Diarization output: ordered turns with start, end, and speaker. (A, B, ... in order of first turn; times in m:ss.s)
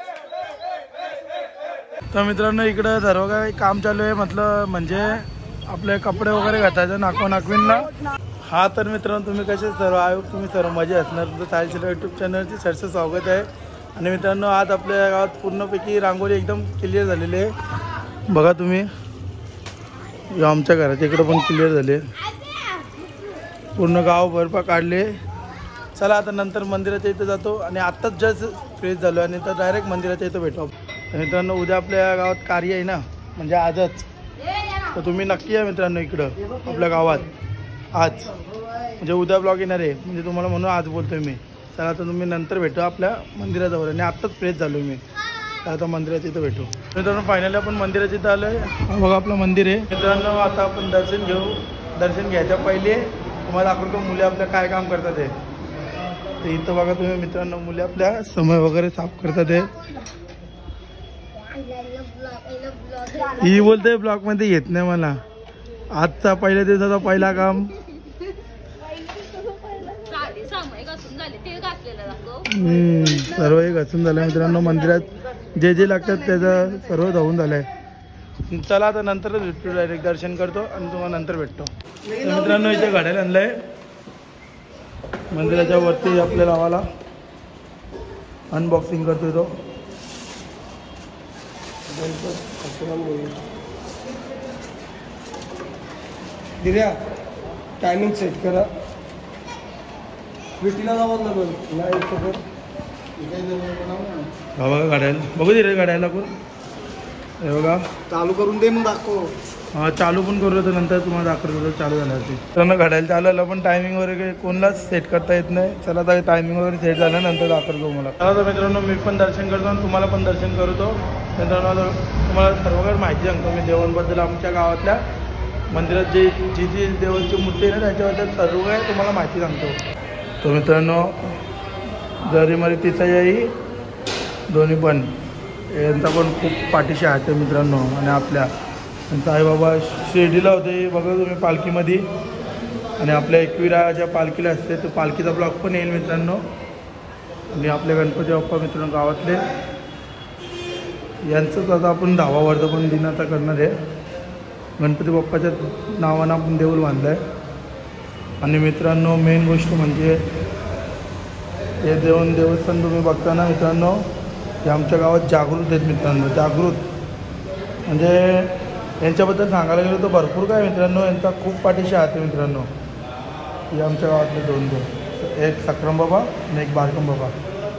0:02.1-0:07.9 A
0:08.5-0:17.5 A
0:18.3-0:18.9 A
0:20.3-0:22.0 A
0:23.8-0:25.1 A
0:25.9-0:34.0 A
0:34.9-0:37.3 A
0:37.9-0:38.3 A
0:39.0-0:45.0 A
0:45.6-0:55.3 A
0:56.4-0:59.7 A
1:01.7-1:02.7 B
1:03.2-1:05.2 A
1:05.9-1:07.7 A
1:10.1-1:12.2 B
1:12.4-1:17.7 A
1:18.5-1:23.5 A
1:25.3-1:26.8 A
1:28.5-1:29.5 A
1:31.9-1:33.4 C
1:36.6-1:37.0 C
1:37.8-1:38.7 C
1:40.6-1:41.7 C
1:41.7-1:42.4 A
1:43.3-1:44.2 C
1:44.6-1:46.3 A
1:47.4-1:47.8 A
1:48.1-1:49.3 C
1:49.7-2:05.0 A
2:05.7-2:09.8 A
2:10.4-2:11.4 A
2:12.2-2:13.5 A
2:14.5-2:15.1 A
2:15.7-2:18.5 A
2:19.1-2:22.0 A
2:23.0-2:26.4 A
2:27.5-2:29.4 A
2:31.2-2:33.7 A
2:34.8-2:37.2 A
2:38.4-2:40.1 A
2:41.8-2:44.0 A
2:44.6-2:46.8 A
2:47.9-2:52.7 A
2:53.7-2:57.3 A